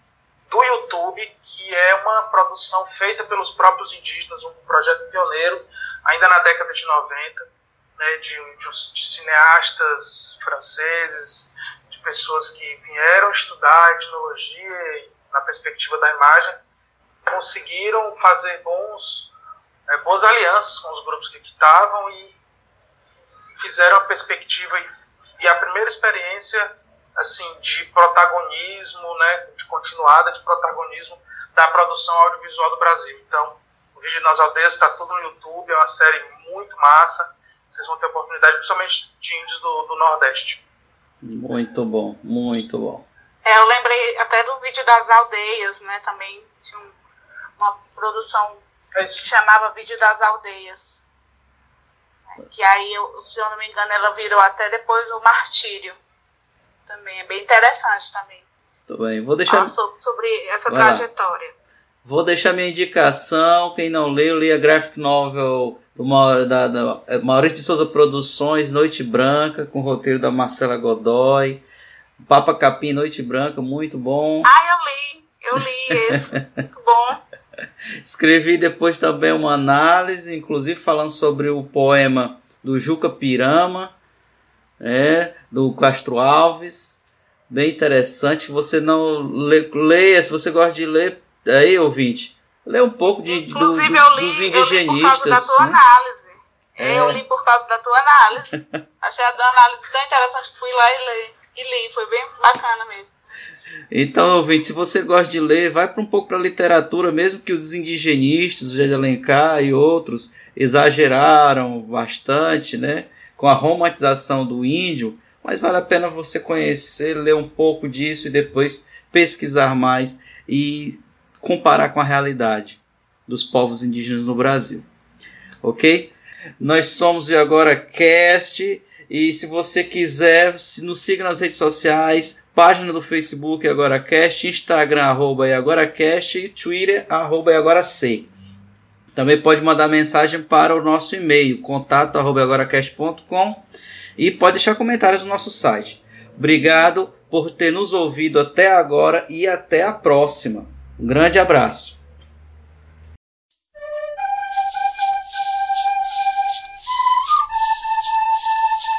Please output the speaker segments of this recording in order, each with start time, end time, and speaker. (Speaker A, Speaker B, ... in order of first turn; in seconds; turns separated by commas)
Speaker A: 0.5-7.5, Speaker A: 8.0-16.6, Speaker A: 17.3-19.3, Speaker A: 19.9-22.4, Speaker A: 23.6-24.9, Speaker A: 25.4-40.6, Speaker B: 41.2-43.1, Speaker C: 43.5-47.0, Speaker C: 47.6-51.0, Speaker A: 49.0-49.2, Speaker C: 52.4-56.0, Speaker C: 56.9-58.5, Speaker B: 58.9-59.8, Speaker C: 59.5-61.5, Speaker B: 60.7-61.0, Speaker B: 62.0-71.6, Speaker B: 72.2-74.5, Speaker C: 74.4-77.2, Speaker B: 78.0-84.0, Speaker B: 84.8-95.8, Speaker C: 93.3-103.1, Speaker B: 96.8-97.2, Speaker B: 103.9-124.9, Speaker B: 125.6-138.3, Speaker B: 139.2-143.6, Speaker B: 144.2-152.0